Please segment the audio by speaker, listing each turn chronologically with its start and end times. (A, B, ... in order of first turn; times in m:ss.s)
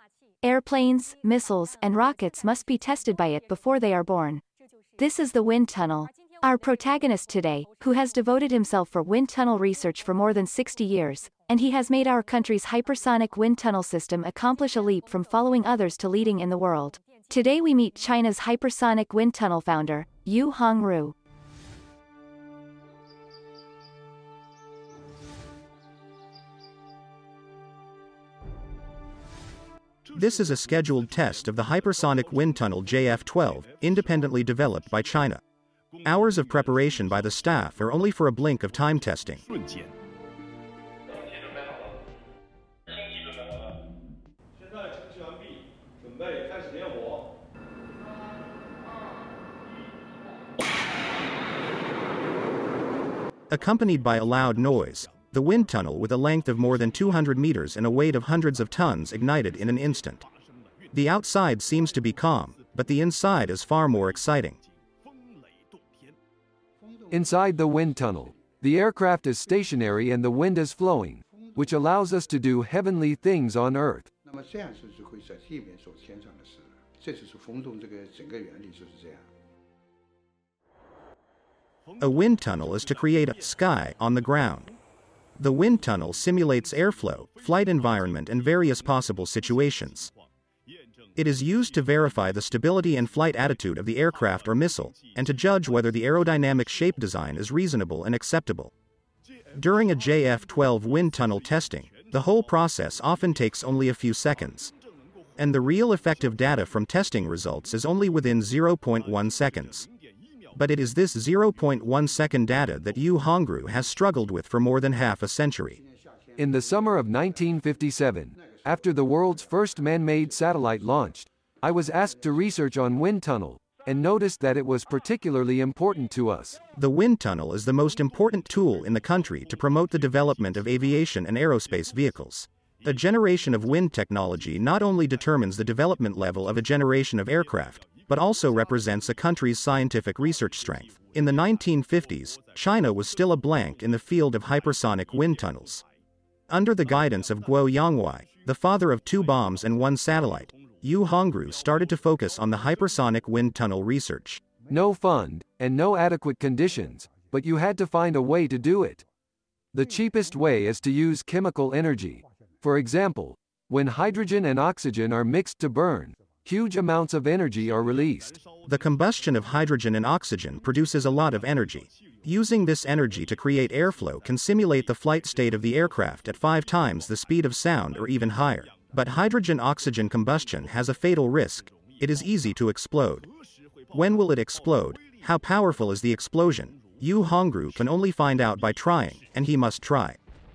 0:00.4-0:04.4 A
0:05.0-0:21.1 A
0:30.1-0:35.4 B
0:36.0-0:39.4 B
0:53.5-1:00.2 B
1:00.9-1:04.6 B
1:07.1-1:14.1 C
1:22.0-1:24.7 B
1:25.4-1:30.1 B
1:31.2-1:38.7 B
1:39.5-1:44.7 B
1:45.4-1:49.9 B
1:50.5-1:55.8 B
1:56.4-2:06.6 C
2:06.7-2:25.8 B
2:26.5-2:34.4 B
2:34.7-2:39.0 C
2:39.7-2:48.4 C
2:48.6-3:03.3 B
3:03.9-3:10.2 B